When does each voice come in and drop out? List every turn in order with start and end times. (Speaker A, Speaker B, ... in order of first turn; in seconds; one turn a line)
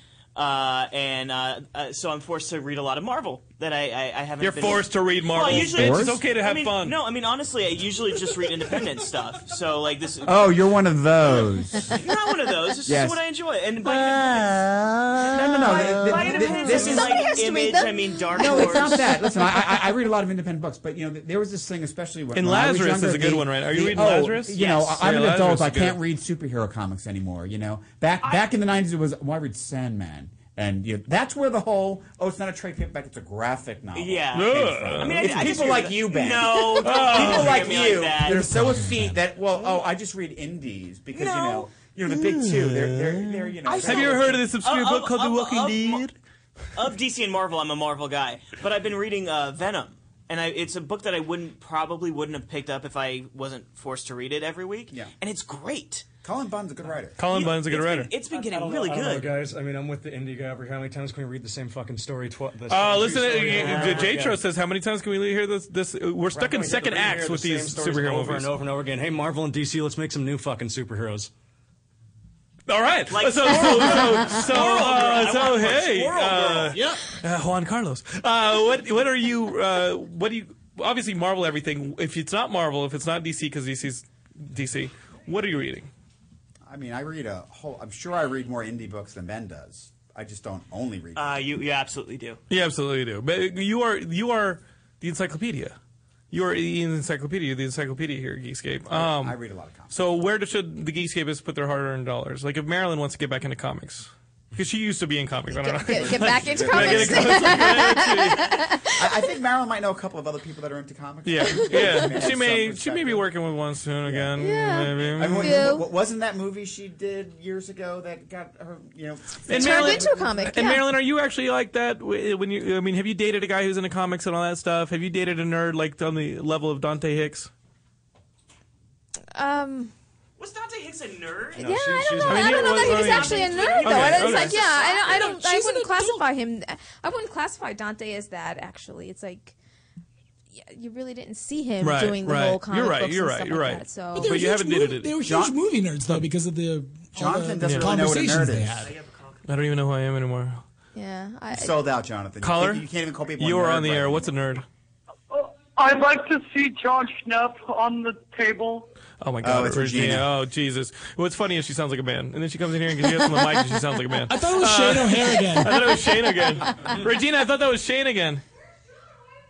Speaker A: 0.3-10.7
Speaker B: 4.4-7.0
Speaker C: 5.4-6.2
Speaker C: 10.2-12.0
Speaker A: 11.3-14.7
Speaker C: 12.8-13.2
Speaker C: 15.3-17.3
Speaker A: 15.3-19.2
Speaker D: 16.3-19.6
Speaker C: 18.3-44.4
Speaker B: 22.3-26.0
Speaker A: 24.6-24.9
Speaker A: 33.9-38.7
Speaker B: 34.3-35.4
Speaker B: 36.8-37.9
Speaker A: 41.1-41.7
Speaker B: 42.1-43.2
Speaker A: 43.6-46.0
Speaker B: 43.8-46.1
Speaker A: 46.7-56.1
Speaker C: 56.2-57.2
Speaker B: 57.2-58.1
Speaker A: 57.3-59.4
Speaker E: 58.3-64.4
Speaker B: 62.7-68.5
Speaker A: 63.5-64.2
Speaker C: 66.3-66.6
Speaker E: 66.4-71.3
Speaker B: 72.7-85.9
Speaker A: 73.1-76.8
Speaker C: 86.7-91.3
Speaker A: 91.1-92.4
Speaker B: 92.5-95.8
Speaker B: 96.3-99.4
Speaker C: 98.9-100.0
Speaker B: 99.9-108.6
Speaker D: 105.5-109.1
Speaker C: 105.9-108.2
Speaker C: 109.0-113.3
Speaker B: 111.2-115.8
Speaker D: 111.4-112.3
Speaker C: 114.0-114.3
Speaker D: 114.4-115.9
Speaker C: 115.0-120.5
Speaker B: 119.5-127.5
Speaker D: 119.5-120.8
Speaker D: 129.3-129.9
Speaker A: 130.4-131.7
Speaker D: 131.6-139.6
Speaker E: 131.6-132.7
Speaker B: 132.3-134.7
Speaker A: 132.5-135.3
Speaker F: 135.1-136.3
Speaker D: 140.5-144.4
Speaker B: 141.8-145.2
Speaker F: 144.1-148.9
Speaker C: 145.2-145.5
Speaker C: 147.1-148.8
Speaker B: 147.6-148.1
Speaker A: 148.8-149.4
Speaker B: 149.4-150.6
Speaker D: 150.9-151.8
Speaker C: 151.5-154.3
Speaker B: 152.4-152.8
Speaker B: 153.4-154.6
Speaker G: 155.3-158.9
Speaker B: 159.2-168.4
Speaker C: 159.4-160.3
Speaker F: 164.3-166.1